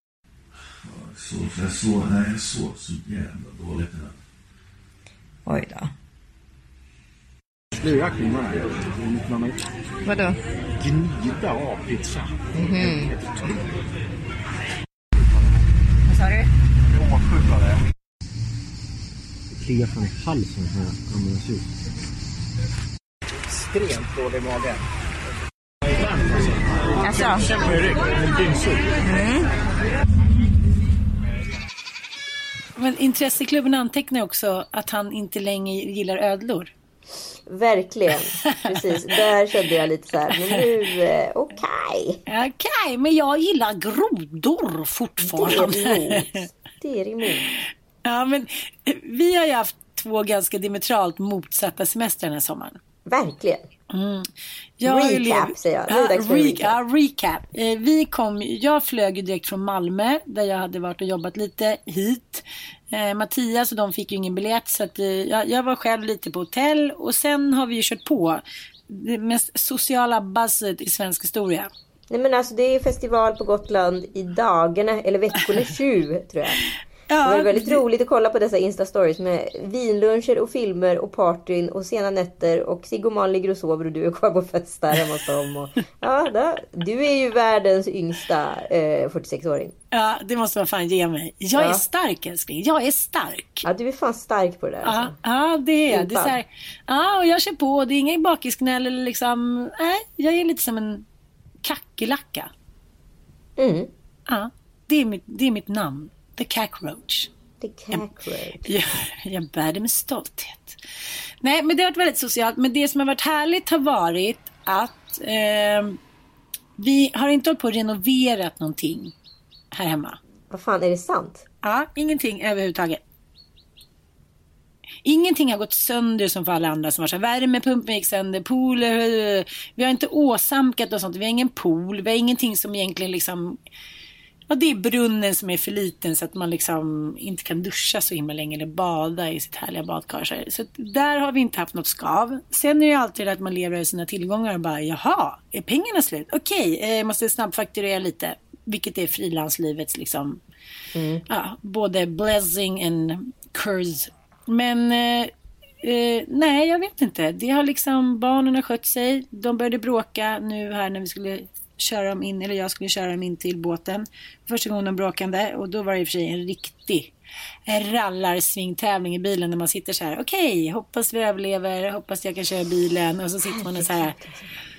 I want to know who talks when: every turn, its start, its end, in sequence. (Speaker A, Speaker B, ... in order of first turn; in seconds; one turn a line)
Speaker A: 0.8-4.2
Speaker B: 5.4-5.9
Speaker C: 7.7-9.6
Speaker B: 10.0-10.4
Speaker C: 10.8-13.7
Speaker B: 12.5-13.1
Speaker B: 16.1-16.5
Speaker C: 17.2-17.5
Speaker C: 19.5-21.7
Speaker C: 23.5-24.8
Speaker C: 25.9-29.0
Speaker B: 27.0-27.6
Speaker B: 29.1-29.4
Speaker D: 32.8-36.7
Speaker B: 37.5-42.2
Speaker D: 42.3-46.4
Speaker B: 45.2-47.5
Speaker D: 48.0-52.8
Speaker B: 53.0-53.7
Speaker D: 53.9-71.7
Speaker B: 54.8-56.7
Speaker B: 72.1-76.6
Speaker D: 77.1-77.8
Speaker B: 77.2-89.7
Speaker D: 89.9-93.7
Speaker B: 91.5-91.8
Speaker B: 93.6-95.1
Speaker D: 94.8-101.0
Speaker B: 95.9-96.4
Speaker D: 101.6-102.5
Speaker B: 103.6-103.9
Speaker D: 104.3-107.3
Speaker B: 107.6-108.7
Speaker D: 108.6-110.8
Speaker D: 111.4-116.0
Speaker D: 116.8-119.1
Speaker D: 119.7-120.2
Speaker B: 120.5-121.4
Speaker D: 121.6-123.0
Speaker D: 125.0-133.6
Speaker D: 134.5-150.4
Speaker B: 150.9-151.2
Speaker D: 151.3-167.1
Speaker D: 167.7-174.2
Speaker B: 173.4-174.5